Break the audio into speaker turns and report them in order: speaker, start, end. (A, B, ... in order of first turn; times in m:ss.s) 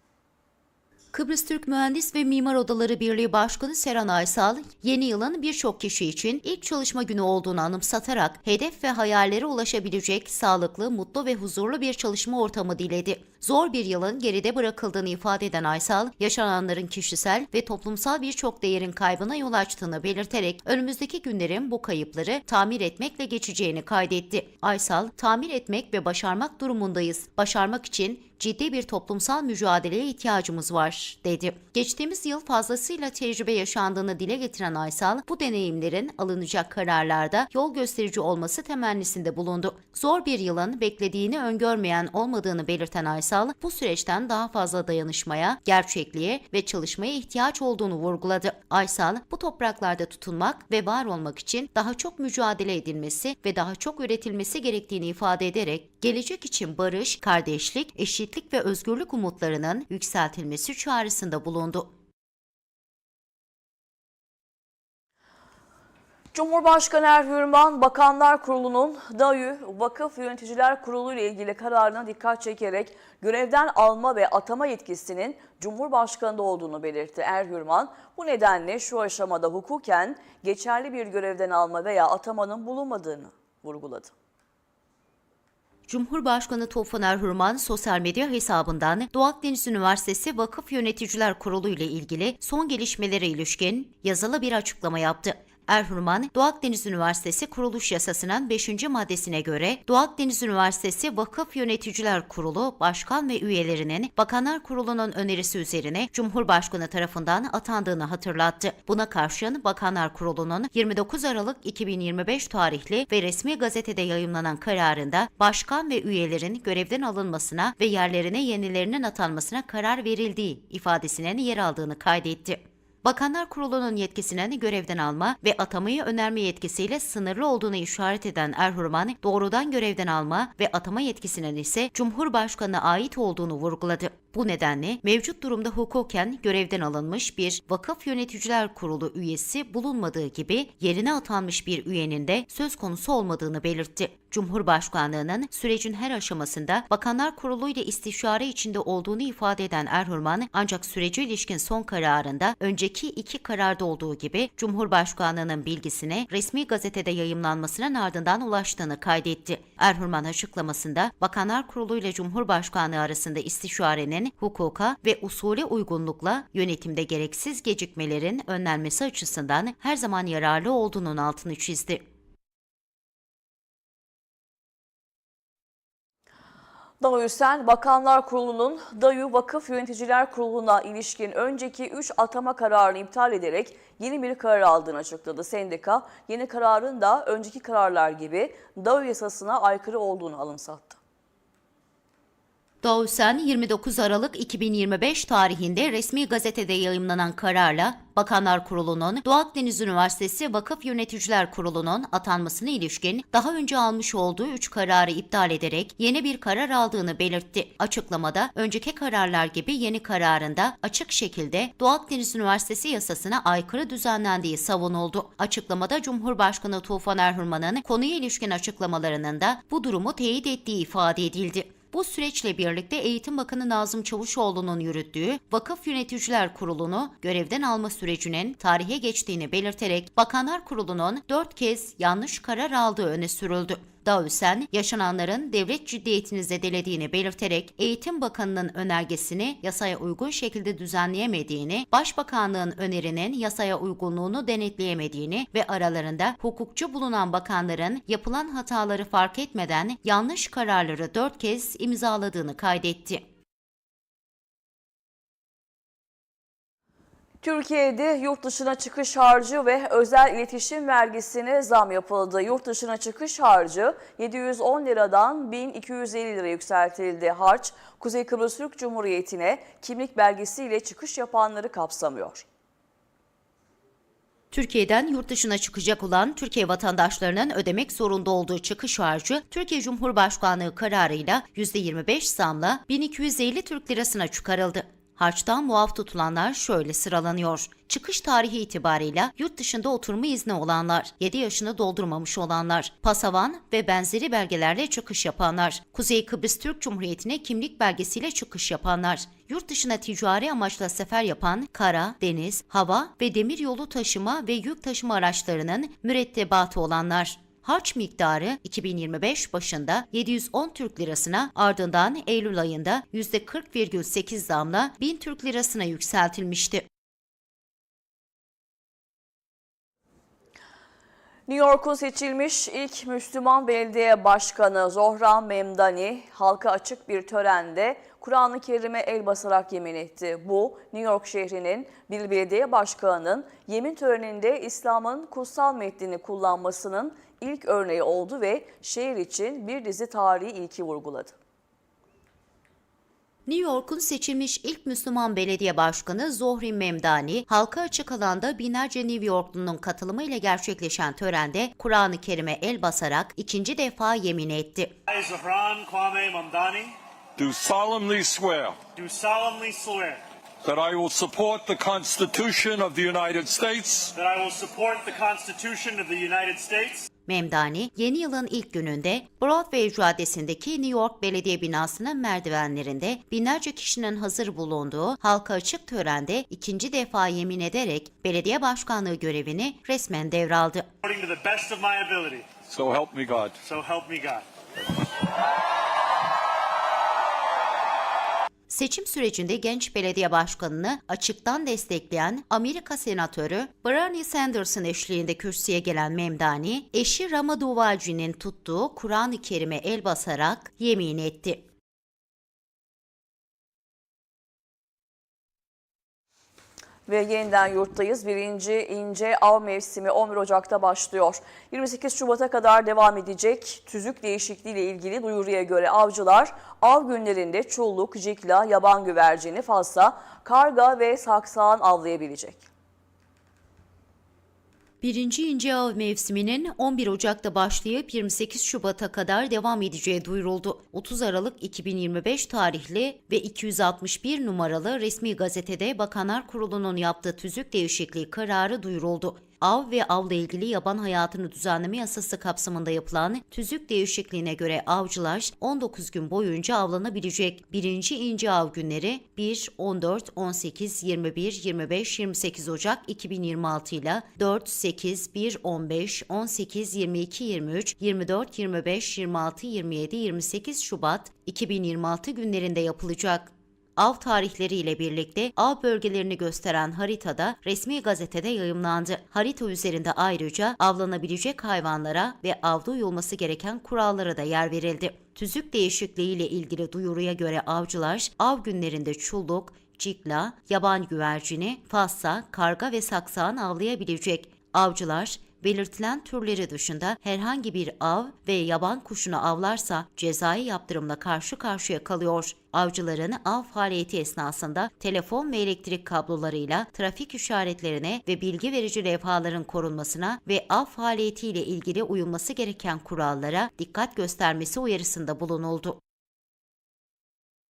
0:01.1-1:01.9 A
1:06.3-1:24.1 B
1:25.9-2:52.0 A
2:57.0-3:11.0 B
3:12.8-4:13.2 A
4:17.4-4:32.4 B
4:34.5-5:16.8 A
5:21.5-5:41.3 B
5:43.4-5:54.9 A
5:55.1-5:57.0 C
5:57.4-5:58.8 D
5:59.0-6:00.2 C
6:00.6-6:04.1 D
6:04.1-6:07.1 C
6:07.3-6:20.9 A
6:21.0-6:22.6 C
6:22.7-6:23.6 D
6:23.6-6:24.4 C
6:28.7-6:41.6 A
6:47.1-7:02.6 B
7:05.0-8:26.0 A